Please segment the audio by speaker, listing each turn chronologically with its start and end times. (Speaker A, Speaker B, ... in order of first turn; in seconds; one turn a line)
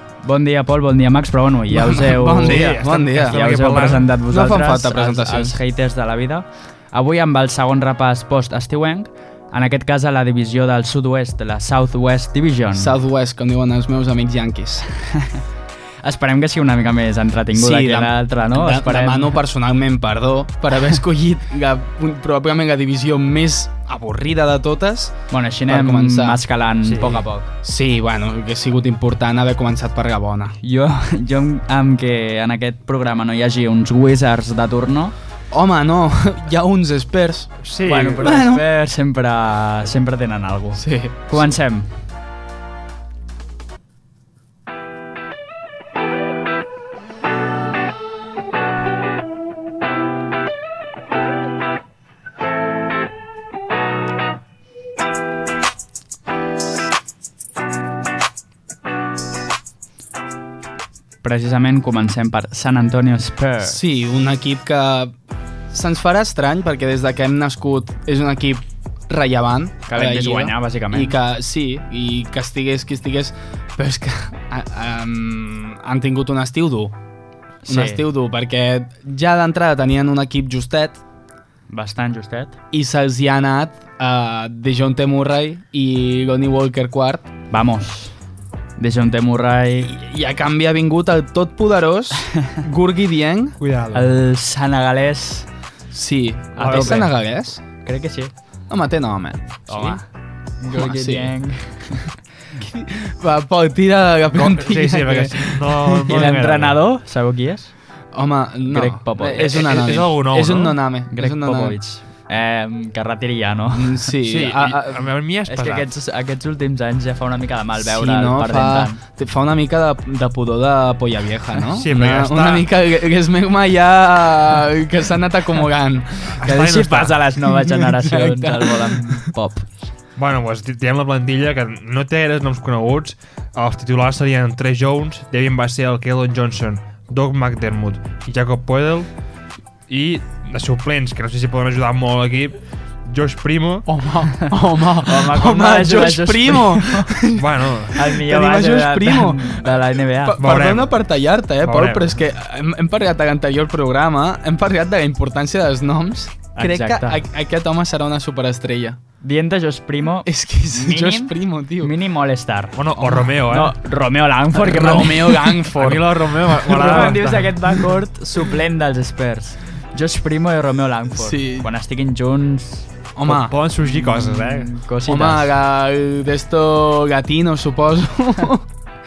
Speaker A: 0.2-12.9
Speaker B: 1.7-3.6
Speaker C: 2.4-4.1
Speaker B: 4.3-5.6
Speaker B: 12.7-14.9
Speaker A: 15.1-15.4
Speaker A: 16.0-19.4
Speaker B: 17.5-25.1
Speaker A: 25.3-27.5
Speaker B: 25.7-26.4
Speaker C: 26.8-27.2
Speaker B: 27.6-30.6
Speaker A: 30.6-35.1
Speaker B: 35.5-37.6
Speaker C: 37.6-38.3
Speaker A: 37.8-41.9
Speaker B: 38.2-38.7
Speaker B: 40.8-41.4
Speaker A: 61.2-63.8
Speaker B: 63.6-65.1
Speaker B: 65.7-76.9
Speaker A: 69.9-71.2
Speaker A: 77.6-78.0
Speaker B: 77.7-81.0
Speaker A: 81.7-82.6
Speaker B: 82.7-87.3
Speaker A: 87.5-88.1
Speaker A: 88.8-89.9
Speaker B: 89.8-93.6
Speaker A: 92.3-92.6
Speaker C: 93.6-94.1
Speaker A: 93.9-95.5
Speaker B: 95.9-97.6
Speaker A: 96.6-97.1
Speaker C: 96.6-97.1
Speaker A: 97.8-98.3
Speaker B: 98.7-100.0
Speaker A: 99.7-100.0
Speaker A: 100.6-102.1
Speaker B: 100.7-101.4
Speaker B: 102.5-106.3
Speaker C: 104.3-106.8
Speaker A: 106.0-107.7
Speaker B: 108.1-111.8
Speaker A: 108.7-109.7
Speaker C: 109.3-110.8
Speaker A: 111.1-114.0
Speaker B: 113.7-115.1
Speaker C: 114.2-115.9
Speaker A: 115.5-119.0
Speaker B: 117.8-126.4
Speaker C: 121.7-122.7
Speaker C: 126.4-127.2
Speaker A: 126.4-129.7
Speaker B: 127.5-129.3
Speaker C: 130.2-139.1
Speaker C: 139.9-143.9
Speaker B: 143.9-159.0
Speaker A: 145.0-147.1
Speaker C: 147.3-148.0
Speaker A: 147.9-150.4
Speaker C: 150.4-150.9
Speaker C: 151.6-152.1
Speaker A: 156.6-157.2
Speaker A: 159.2-162.8
Speaker B: 160.2-161.9
Speaker C: 162.7-163.8
Speaker B: 163.0-163.3
Speaker A: 163.4-165.6
Speaker B: 164.5-167.2
Speaker C: 165.7-167.8
Speaker A: 166.6-172.9
Speaker B: 171.1-171.7
Speaker B: 173.2-173.5
Speaker C: 173.2-174.7
Speaker A: 174.0-175.5
Speaker B: 175.0-178.7